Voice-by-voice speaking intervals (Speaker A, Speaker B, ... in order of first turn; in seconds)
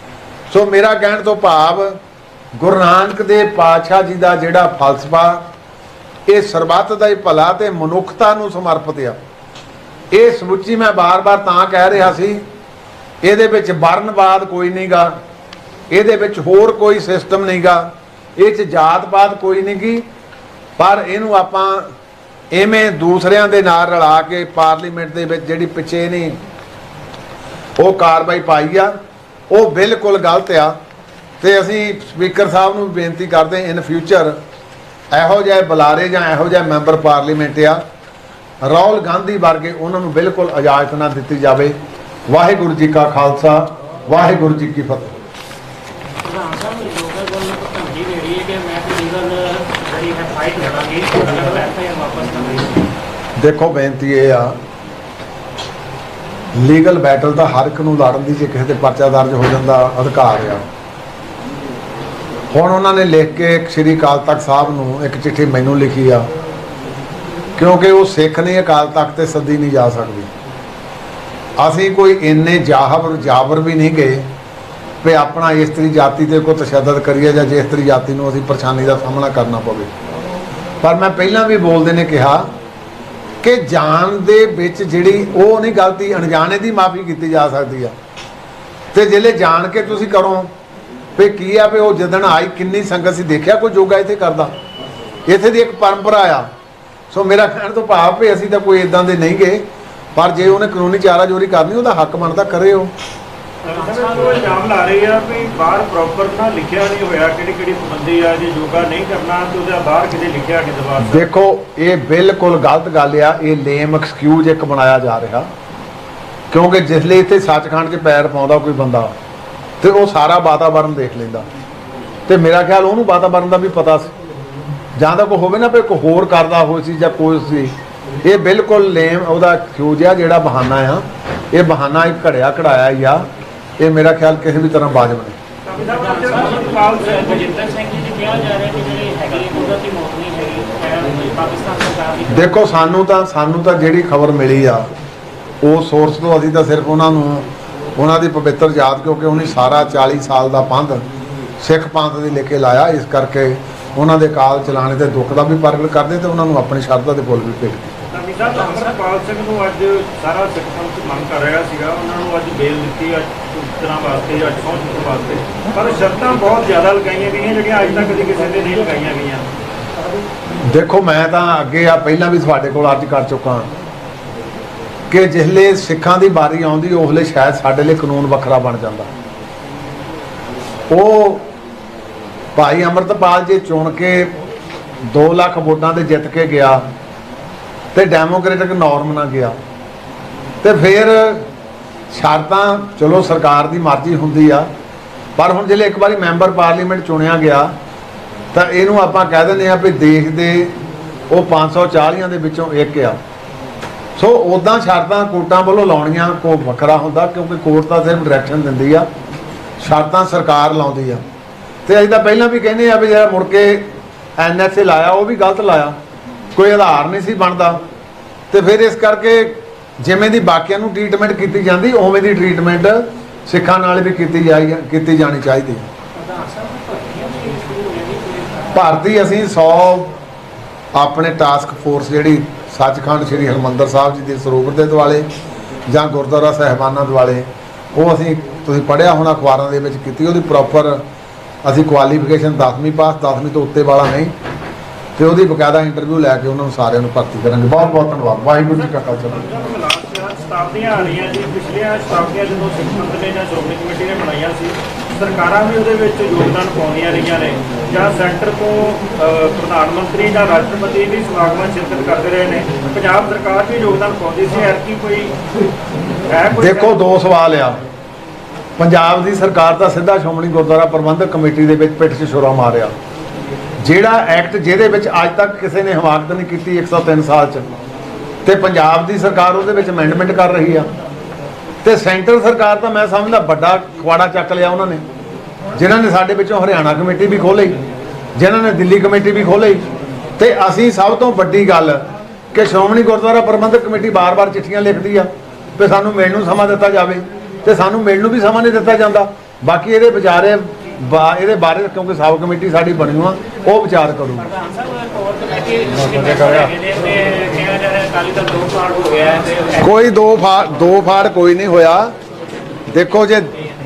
Speaker A: 0.5-2.0, 2.6-5.5, 6.3-9.2, 10.1-12.4, 13.2-15.2, 15.9-20.1, 20.8-21.9, 22.5-26.4, 27.8-28.9, 29.5-30.8, 31.4-34.4, 35.1-37.8, 38.6-41.8, 42.3-45.1, 53.4-54.6, 56.5-60.7, 62.5-66.3, 67.6-70.3, 71.6-74.3, 75.0-79.9, 80.8-82.5, 83.4-87.9, 88.9-90.5, 91.2-94.5, 95.3-96.5, 97.1-99.6, 100.2-102.9, 111.0-115.5, 116.5-119.1, 119.8-121.5, 122.3-124.1, 125.0-133.2, 133.8-135.4, 142.3-144.9, 145.6-147.4, 148.0-151.0, 151.6-157.9, 170.6-173.7, 175.1-179.1, 180.9-181.5, 182.5-184.3, 185.1-186.8, 187.9-189.6, 190.6-191.5, 192.1-194.7, 195.4-197.7, 198.5-200.8, 201.3-203.2, 204.2-209.1, 209.8-211.2, 211.8-215.9, 216.5-217.8, 218.5-225.8, 228.7-230.1, 230.9-235.3, 235.9-241.0, 241.6-244.3, 245.2-249.4, 266.6-267.8, 268.8-272.9, 273.8-277.7, 278.4-280.9, 281.8-285.0, 285.7-287.8, 288.3-289.8, 290.4-304.5, 305.9-306.7, 309.8-312.1, 312.9-313.5
Speaker B: 46.1-52.9, 103.6-104.6, 135.9-142.6, 158.6-158.9, 226.1-228.8, 304.4-310.0
Speaker C: 103.6-111.3, 135.7-137.6, 158.1-169.5, 248.6-265.3, 266.3-267.0